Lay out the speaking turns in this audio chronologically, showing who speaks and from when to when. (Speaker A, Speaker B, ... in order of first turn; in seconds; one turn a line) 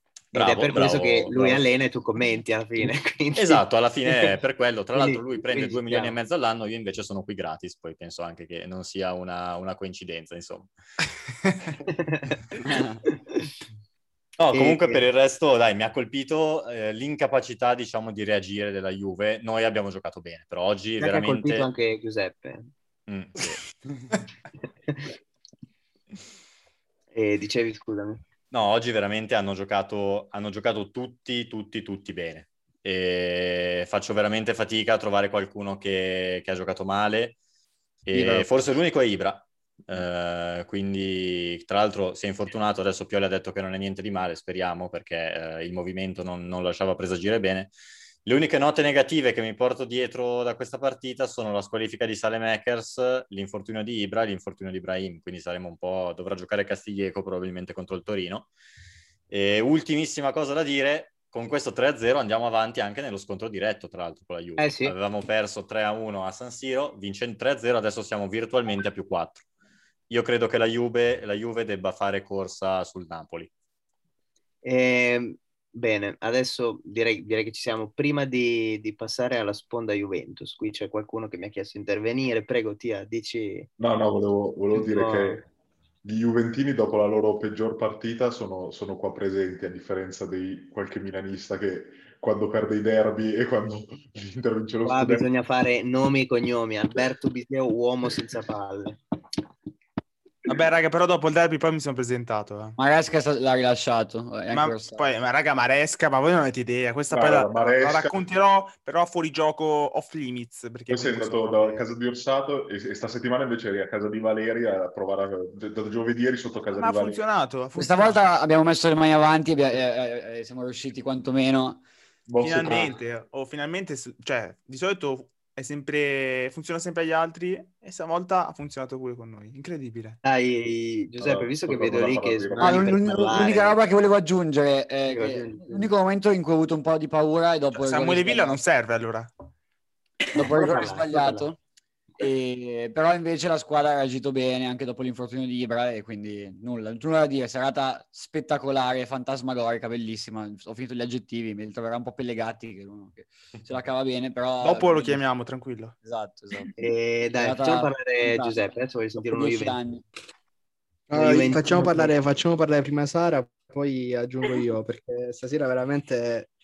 Speaker A: 0.3-1.6
Speaker B: 0.3-4.3
Speaker A: 3.3-10.7
Speaker B: 4.9-6.2
Speaker B: 11.9-13.5
Speaker C: 12.7-13.0
Speaker A: 14.4-21.7
Speaker B: 14.5-15.0
Speaker B: 21.0-22.7
Speaker A: 23.1-23.7
Speaker B: 27.1-28.2
Speaker A: 28.5-37.4
Speaker A: 38.0-47.7
Speaker D: 38.1-38.5
Speaker A: 48.2-58.5
Speaker A: 59.3-69.4
Speaker B: 64.6-65.0
Speaker A: 70.1-73.5
Speaker B: 74.6-83.7
Speaker D: 83.8-85.5
Speaker B: 84.7-85.4
Speaker D: 86.0-95.2
Speaker B: 94.8-99.0
Speaker E: 100.5-102.8
Speaker C: 102.8-105.0
Speaker E: 104.5-111.9
Speaker D: 107.1-108.2
Speaker D: 110.9-117.2
Speaker E: 116.7-118.2
Speaker C: 117.8-121.8
Speaker D: 122.3-122.9
Speaker E: 122.4-130.2
Speaker B: 130.2-133.8
Speaker D: 131.2-133.0
Speaker C: 132.6-138.5
Speaker B: 135.1-135.9
Speaker E: 137.7-139.3
Speaker C: 140.3-141.6
Speaker B: 140.4-141.5
Speaker C: 142.2-155.2
Speaker E: 154.6-155.9
Speaker C: 156.0-156.8
Speaker B: 156.8-159.8
Speaker C: 157.4-158.6
Speaker C: 159.2-160.0
Speaker F: 161.1-166.5
Speaker B: 161.1-162.1